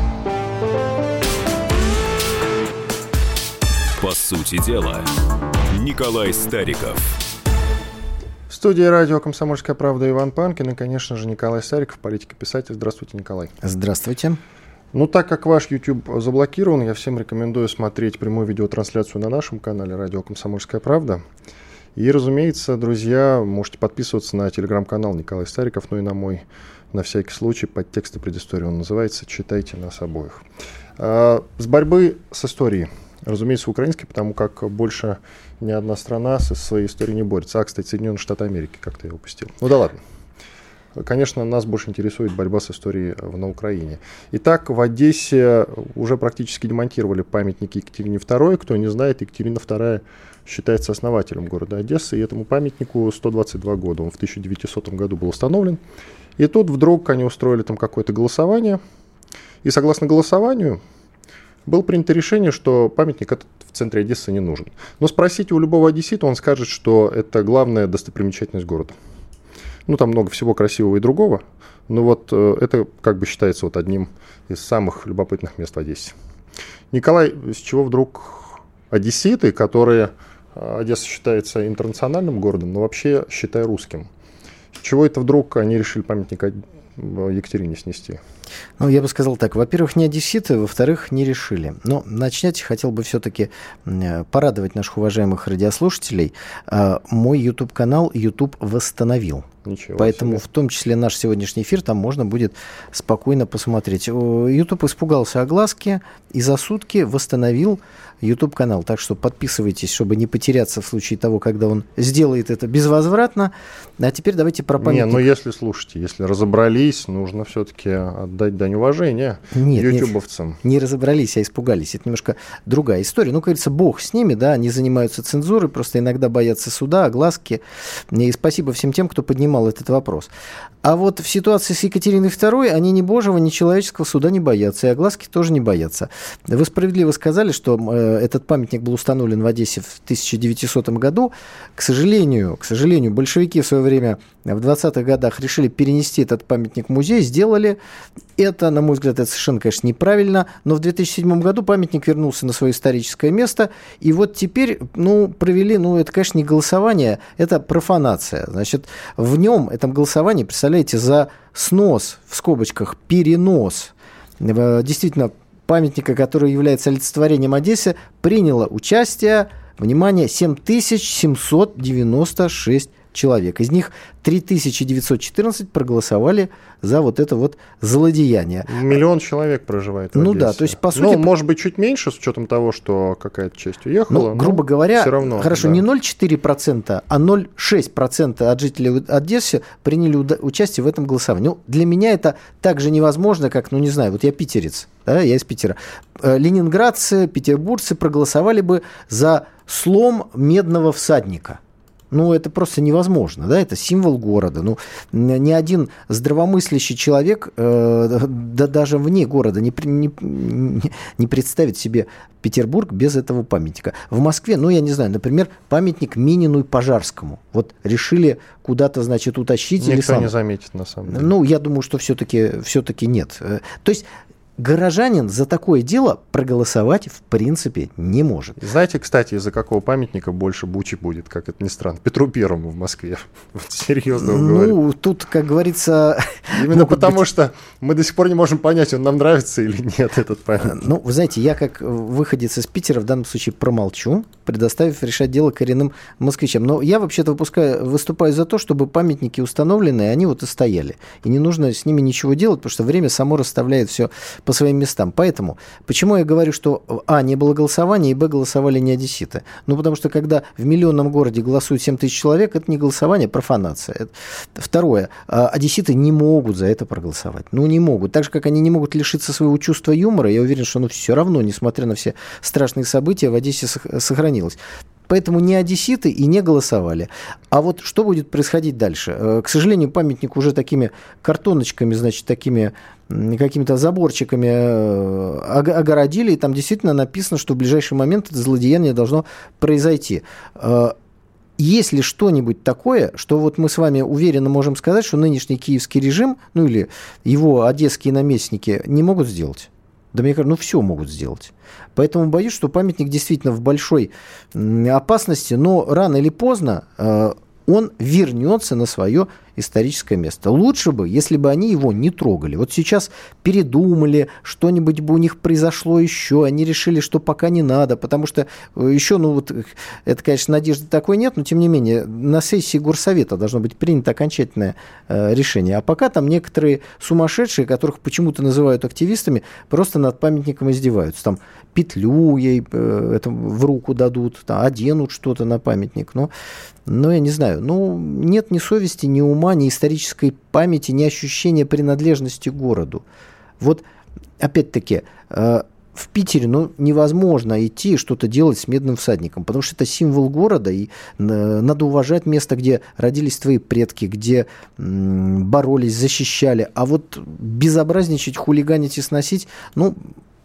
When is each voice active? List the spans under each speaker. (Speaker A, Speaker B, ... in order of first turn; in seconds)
Speaker A: 4.0-5.1, 5.7-7.2
Speaker B: 8.5-13.5, 14.9-21.2, 21.9-30.4, 31.0-40.0, 41.0-55.8, 56.4-58.8, 59.6-60.8, 61.6-69.0, 69.9-76.2, 76.9-84.1, 84.8-88.2, 99.6-100.4, 114.8-120.6, 178.7-185.8, 219.8-221.3, 228.6-234.8, 236.5-240.8
Speaker C: 13.6-14.4, 88.8-99.5, 100.0-115.2, 119.5-120.1, 120.6-130.3, 130.8-147.8, 148.4-179.0, 180.1-181.3, 184.1-201.6, 202.1-220.3, 221.1-224.1, 224.6-228.6, 234.2-237.2, 240.6-290.9, 291.6-336.3, 336.9-343.0, 344.4-360.1